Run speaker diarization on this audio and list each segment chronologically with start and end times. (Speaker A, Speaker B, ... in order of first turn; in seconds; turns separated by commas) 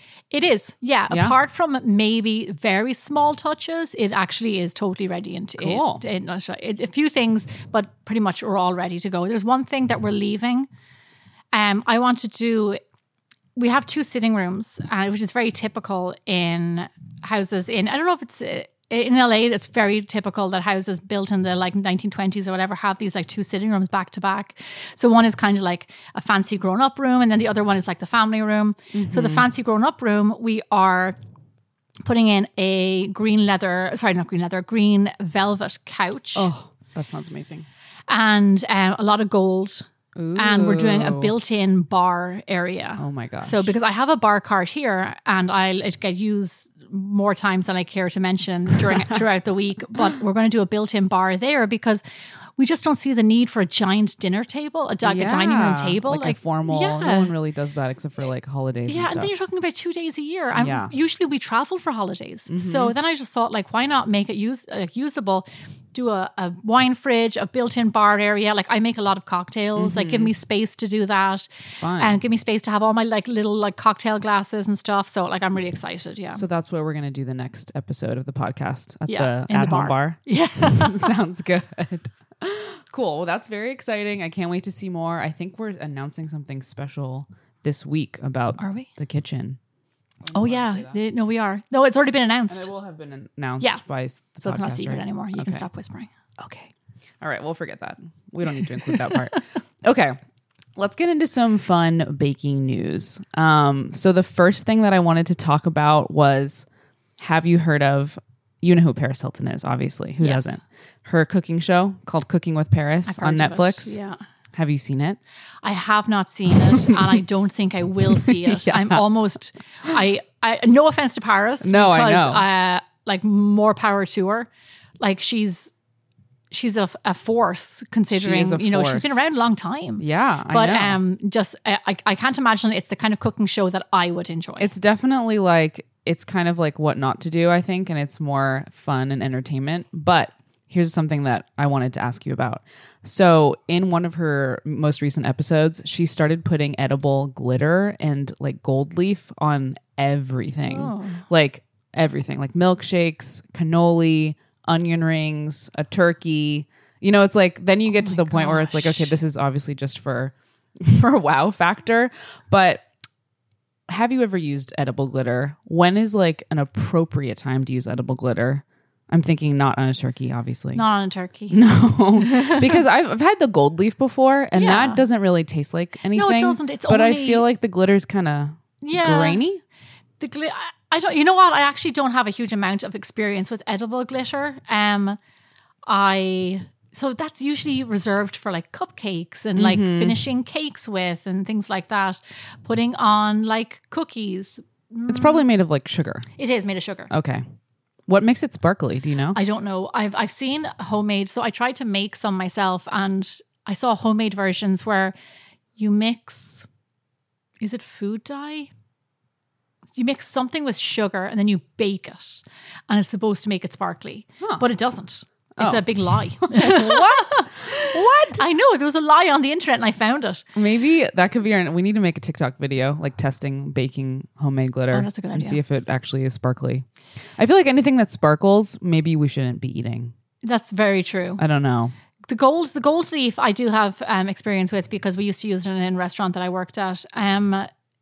Speaker A: 0.3-10.7, Speaker B: 1.1-1.3, Speaker B: 5.6-6.0, Speaker A: 11.5-12.8, Speaker A: 13.6-31.2, Speaker B: 28.9-29.5, Speaker A: 32.0-36.5, Speaker B: 36.4-37.6, Speaker A: 38.1-52.0, Speaker B: 40.1-41.3, Speaker B: 43.0-43.7, Speaker A: 52.6-57.3, Speaker B: 55.0-59.3, Speaker A: 58.9-76.4, Speaker B: 60.5-60.9, Speaker B: 62.5-62.9, Speaker B: 69.8-70.3, Speaker B: 71.8-72.2, Speaker B: 76.3-89.6, Speaker A: 79.1-81.1, Speaker A: 88.6-88.9, Speaker B: 90.2-91.0, Speaker A: 90.3-92.7, Speaker B: 92.5-95.7, Speaker A: 94.4-96.1, Speaker B: 96.4-100.2, Speaker A: 98.6-99.3, Speaker B: 100.8-106.7, Speaker B: 107.2-114.0, Speaker A: 110.2-110.6, Speaker A: 113.0-114.2, Speaker B: 114.5-115.2, Speaker A: 115.6-124.5, Speaker B: 116.6-117.2, Speaker B: 118.2-119.0, Speaker B: 121.6-122.5, Speaker A: 125.0-125.7, Speaker A: 126.5-134.7, Speaker B: 128.1-129.2, Speaker B: 130.0-131.0, Speaker B: 134.6-162.8, Speaker A: 150.6-151.2, Speaker A: 157.9-159.1, Speaker B: 163.9-170.8, Speaker A: 170.7-171.6, Speaker B: 171.5-179.6, Speaker A: 172.2-172.7, Speaker A: 174.5-175.0, Speaker A: 176.1-177.4, Speaker A: 178.8-179.4, Speaker A: 180.2-185.2, Speaker A: 185.8-195.4, Speaker B: 189.6-190.2, Speaker B: 195.1-196.2, Speaker A: 196.4-197.1, Speaker B: 197.1-197.4, Speaker B: 198.1-199.4, Speaker A: 199.3-205.1, Speaker A: 205.8-206.7, Speaker A: 207.6-208.7, Speaker A: 209.9-220.4, Speaker B: 215.6-218.4, Speaker B: 220.5-226.8, Speaker A: 224.9-225.6, Speaker B: 227.4-230.1, Speaker A: 230.4-231.4, Speaker B: 231.4-231.9, Speaker A: 232.2-237.7